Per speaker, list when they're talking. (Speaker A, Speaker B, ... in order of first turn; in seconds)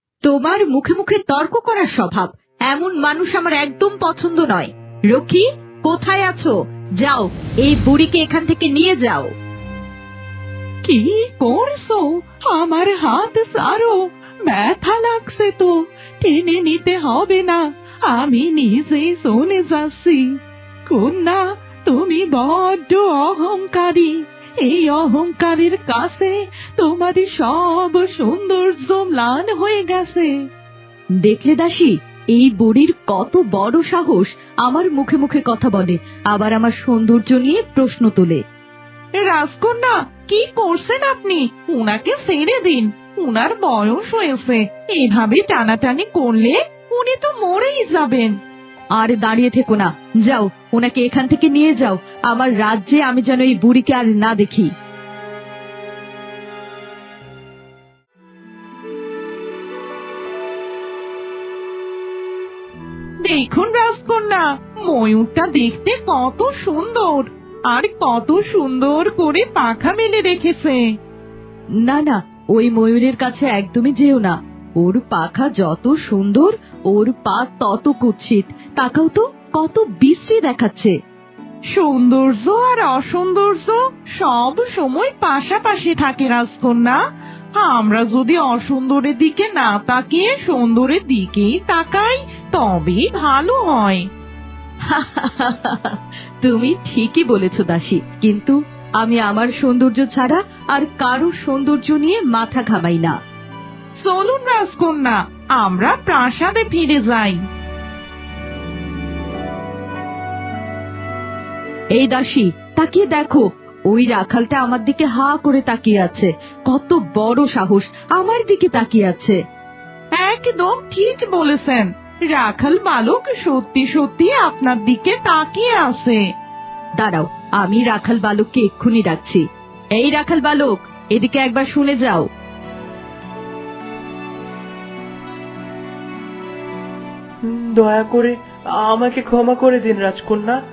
Speaker A: 0.2-9.3, 31.2-38.4, 49.0-54.7, 71.8-80.9, 94.9-103.1, 112.0-119.4, 127.0-129.4, 129.9-132.3
Speaker B: 10.8-30.3, 39.2-48.3, 63.2-70.9, 81.7-87.0, 87.6-94.1, 104.0-107.5, 120.2-126.2
Speaker C: 137.5-140.6